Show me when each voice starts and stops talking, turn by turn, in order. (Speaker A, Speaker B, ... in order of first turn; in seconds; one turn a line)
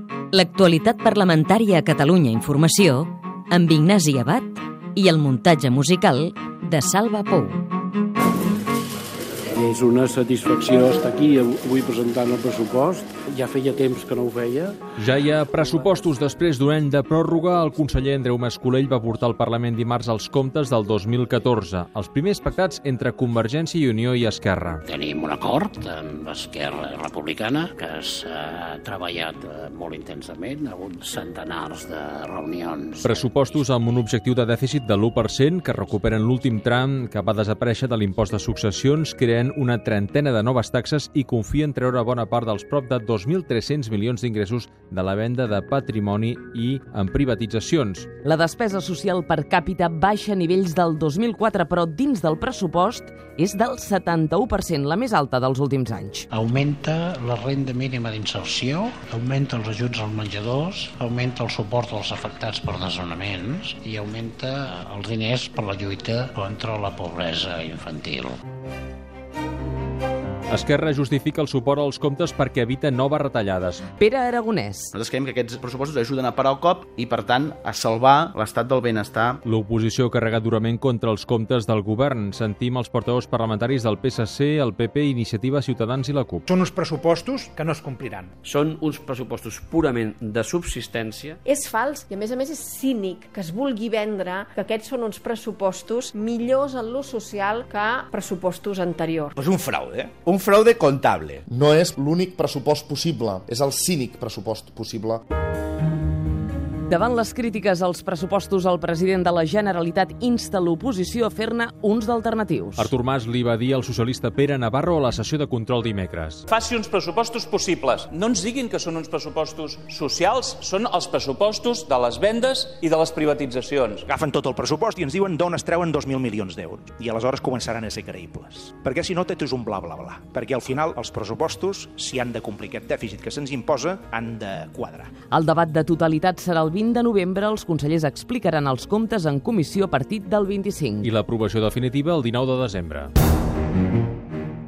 Speaker A: 0.3-7.6
Speaker B: 9.5-14.8
Speaker C: 15.0-24.9
Speaker D: 24.9-33.1
Speaker C: 33.0-48.1
Speaker E: 48.2-56.2
Speaker D: 56.3-68.3
Speaker C: 70.5-73.8
Speaker E: 74.0-74.9
Speaker F: 74.9-79.4
Speaker C: 79.4-86.4
Speaker G: 88.5-90.5
Speaker H: 91.4-99.3
Speaker I: 100.6-100.9
Speaker G: 101.0-101.3
Speaker I: 101.5-105.2
Speaker E: 106.9-112.9
Speaker C: 112.8-116.4
Speaker J: 116.5-124.0
Speaker K: 124.1-135.1
Speaker E: 135.3-141.1
Speaker C: 141.0-143.1